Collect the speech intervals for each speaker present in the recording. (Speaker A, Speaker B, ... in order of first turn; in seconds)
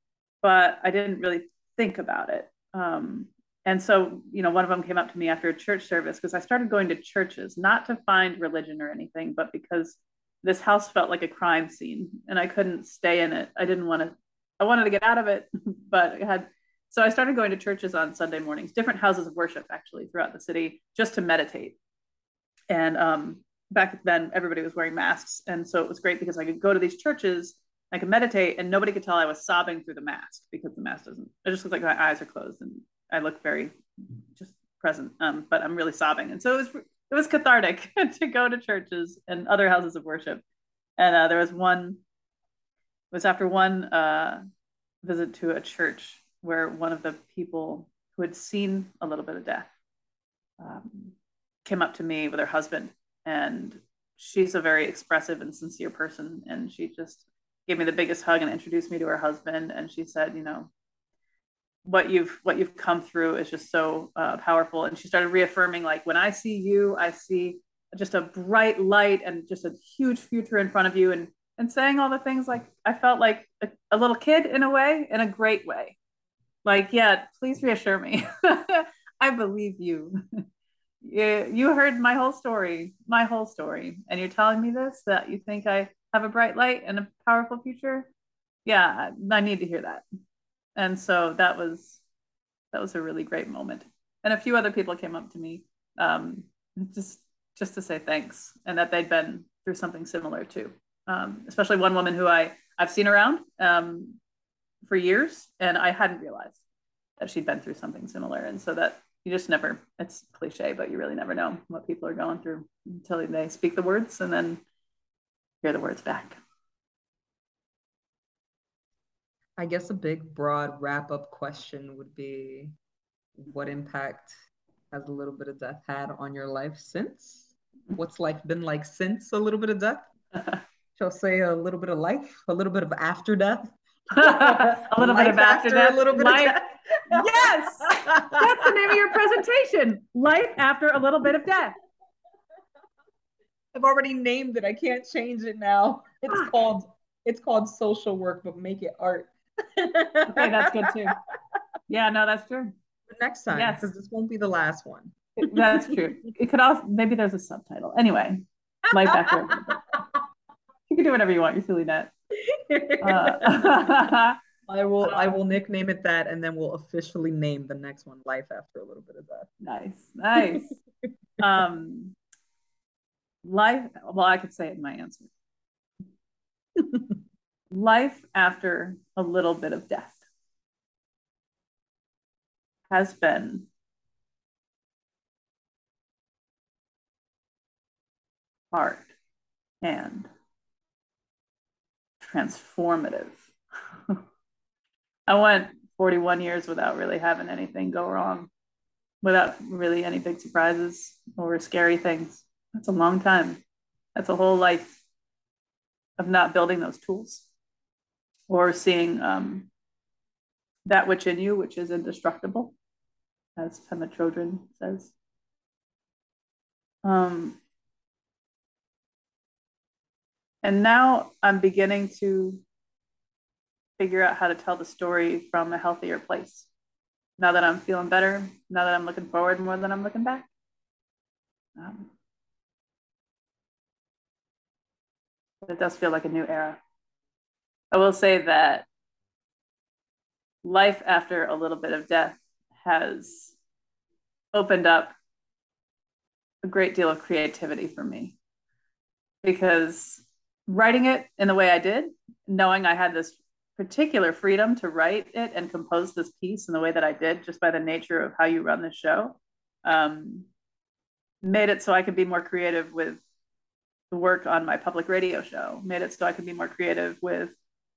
Speaker A: 0.4-21.8, 22.7-33.8, 34.4-40.4, 41.0-42.0, 43.1-44.4, 45.0-49.7, 50.6-60.7, 61.8-76.0, 76.7-80.2, 81.0-88.1, 88.7-90.0, 90.8-92.0, 92.7-104.2, 104.8-106.6, 107.2-114.6, 115.6-116.4, 134.2-136.6, 137.1-141.8, 150.3-151.2, 151.9-152.7, 153.5-153.9, 155.4-159.8, 160.9-162.1, 163.0-164.4, 165.0-165.4, 169.6-170.8, 171.4-172.2, 173.4-175.3, 177.7-180.2, 182.9-183.7, 188.7-189.1, 189.8-190.3, 192.2-193.5, 195.3-198.5, 199.2-203.6, 204.2-204.9, 206.2-207.5, 208.5-209.7, 210.8-212.8, 213.6-215.1, 217.0-217.6, 220.6-222.6, 224.0-226.7, 227.4-230.5, 231.8-232.1, 235.7-236.8, 237.9-238.9, 240.6-243.6, 244.5-245.1, 246.6-248.4, 249.4-260.5, 261.4-263.2, 264.1-267.6
Speaker B: 119.6-122.8, 123.4-124.3, 124.9-130.1, 131.0-138.4, 143.7-150.8, 153.1-155.9, 162.5-164.0, 164.7-169.5